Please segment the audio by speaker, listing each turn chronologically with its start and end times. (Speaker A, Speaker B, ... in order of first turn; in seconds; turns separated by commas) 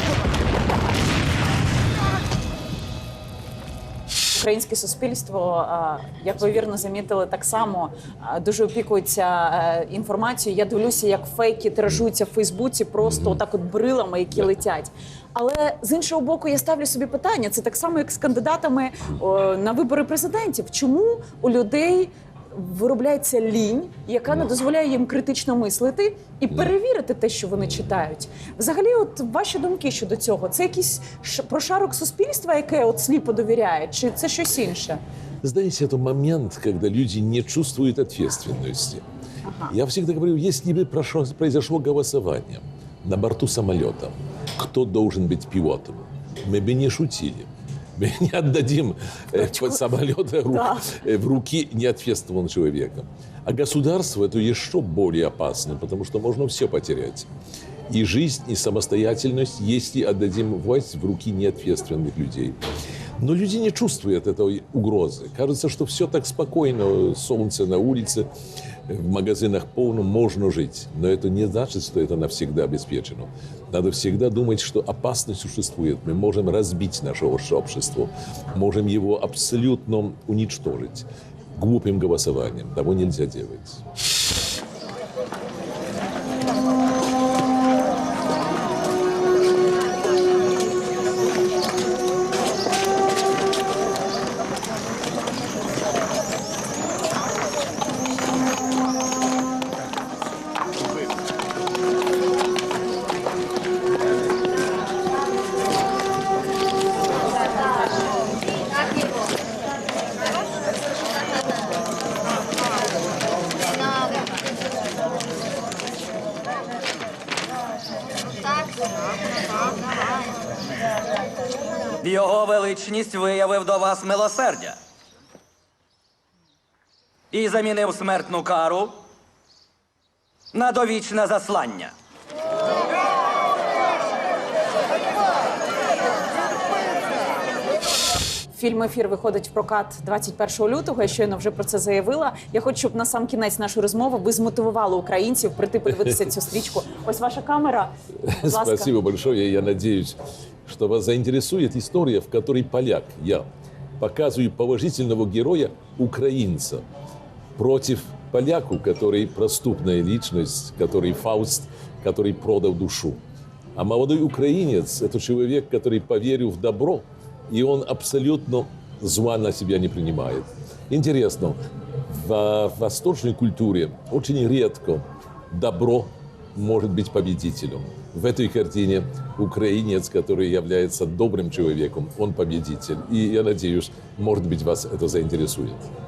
Speaker A: 4.3-35.0, Speaker B: 35.4-39.0, Speaker A: 39.5-39.8, Speaker B: 39.7-57.3, Speaker A: 49.3-49.9, Speaker A: 50.5-50.9, Speaker B: 57.9-62.6, Speaker B: 63.2-68.3, Speaker B: 68.9-83.8, Speaker C: 122.0-124.8, Speaker C: 127.3-129.0, Speaker C: 130.5-131.9, Speaker A: 138.5-147.9, Speaker B: 148.2-153.5, Speaker A: 148.4-148.9, Speaker B: 154.0-156.8, Speaker B: 157.6-163.2, Speaker B: 163.8-185.9